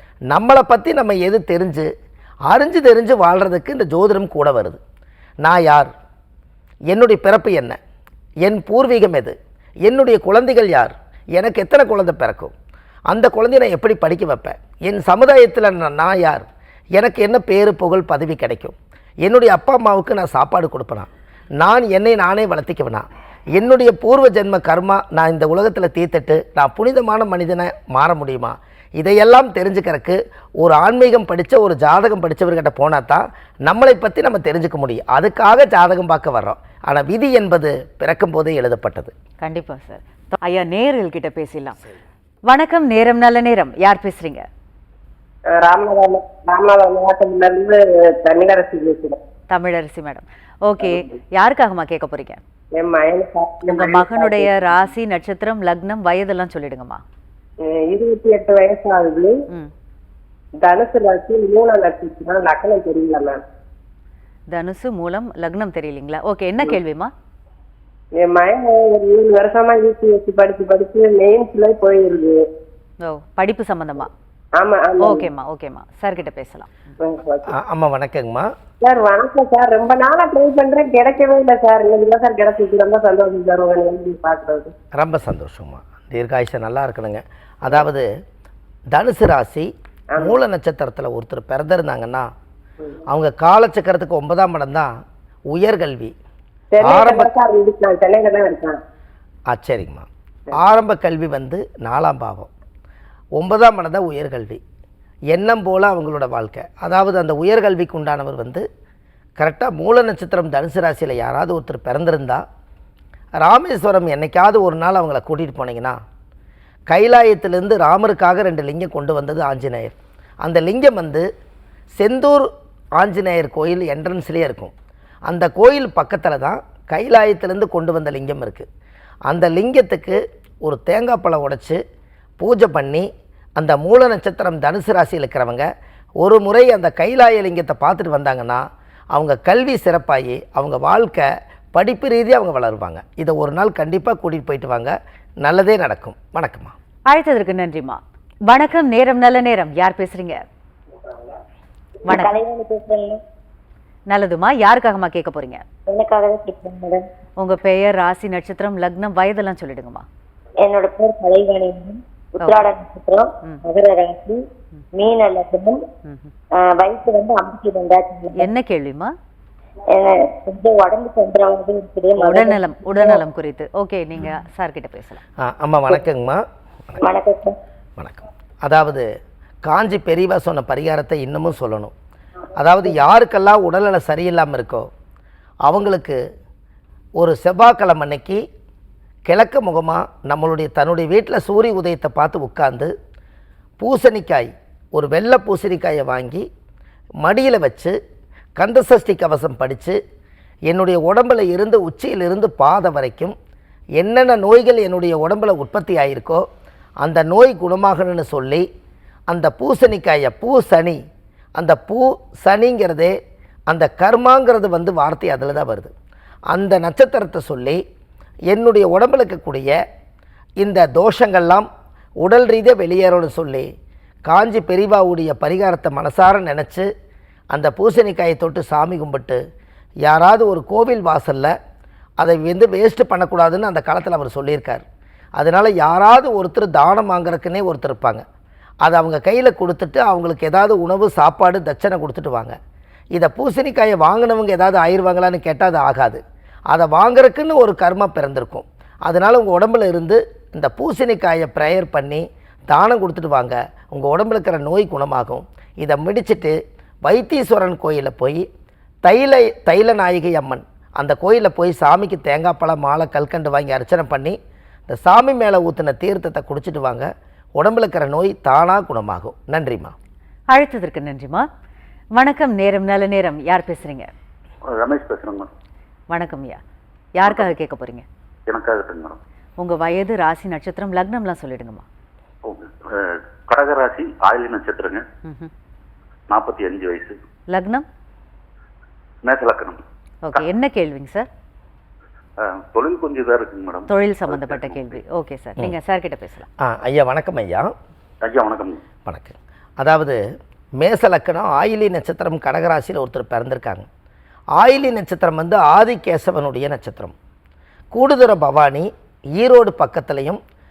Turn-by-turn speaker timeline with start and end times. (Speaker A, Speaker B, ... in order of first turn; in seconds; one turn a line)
Speaker A: 0.3-1.9
Speaker A: 2.5-4.8
Speaker A: 5.4-5.9
Speaker A: 6.9-7.8
Speaker A: 8.4-12.5
Speaker A: 13.1-39.1
Speaker B: 39.4-41.8
Speaker B: 42.5-44.4
Speaker C: 45.5-49.2
Speaker B: 49.5-52.4
Speaker C: 52.8-54.8
Speaker B: 53.7-57.0
Speaker C: 57.6-59.3
Speaker C: 60.6-63.4
Speaker B: 64.5-67.1
Speaker C: 68.2-72.4
Speaker B: 73.0-74.1
Speaker C: 74.6-75.2
Speaker B: 75.0-76.7
Speaker C: 77.0-77.5
Speaker A: 77.5-78.5
Speaker C: 78.8-84.7
Speaker A: 85.0-88.0
Speaker A: 88.9-92.3
Speaker A: 93.1-94.9
Speaker A: 95.5-96.1
Speaker C: 96.7-98.8
Speaker A: 96.8-97.3
Speaker A: 99.5-102.5
Speaker A: 103.4-104.6
Speaker A: 105.3-108.6
Speaker A: 109.4-112.4
Speaker A: 113.4-116.0
Speaker A: 116.9-121.2
Speaker A: 122.0-124.7
Speaker A: 125.3-128.7
Speaker A: 129.3-131.8
Speaker A: 132.4-135.7
Speaker A: 136.2-146.7
Speaker B: 147.1-150.4
Speaker B: 152.1-152.4
Speaker D: 152.1-153.2
Speaker B: 154.1-155.6
Speaker D: 155.9-157.1
Speaker B: 157.4-160.0
Speaker D: 160.6-164.4
Speaker D: 164.9-165.8
Speaker B: 166.0-166.3
Speaker D: 166.6-168.5
Speaker B: 168.4-169.1
Speaker D: 169.9-173.2
Speaker B: 172.2-175.2
Speaker A: 175.4-176.4
Speaker D: 177.0-177.5
Speaker A: 178.0-179.1
Speaker A: 179.6-181.9
Speaker A: 182.5-184.9
Speaker A: 185.7-186.2
Speaker A: 187.2-188.4
Speaker A: 189.3-192.9
Speaker A: 193.8-196.5
Speaker A: 197.2-197.9
Speaker A: 198.6-200.0
Speaker A: 200.7-203.3
Speaker A: 204.0-206.4
Speaker A: 207.0-208.6
Speaker A: 209.3-211.0
Speaker A: 211.6-213.1
Speaker A: 213.7-215.9
Speaker A: 216.5-217.8
Speaker A: 218.5-219.7
Speaker A: 220.6-221.7
Speaker A: 222.2-223.7
Speaker A: 224.3-226.9
Speaker A: 227.5-229.4
Speaker A: 230.0-231.5
Speaker A: 232.2-234.8
Speaker A: 235.4-238.2
Speaker A: 238.8-242.6
Speaker A: 243.1-258.4
Speaker A: 259.0-267.1
Speaker A: 267.6-269.9
Speaker B: 270.5-271.5
Speaker B: 272.1-274.1
Speaker E: 274.7-275.5
Speaker B: 276.1-276.6
Speaker B: 277.1-278.0
Speaker E: 278.5-279.2
Speaker B: 279.6-281.8
Speaker E: 282.4-285.0
Speaker B: 285.2-285.5
Speaker E: 286.3-287.1
Speaker B: 287.5-287.8
Speaker E: 289.2-289.8
Speaker B: 290.2-291.3
Speaker E: 292.4-295.0
Speaker B: 293.9-296.5
Speaker A: 296.6-297.7
Speaker E: 298.2-298.8
Speaker A: 299.0-300.2
Speaker A: 300.8-303.9
Speaker A: 304.6-307.1
Speaker A: 307.9-310.4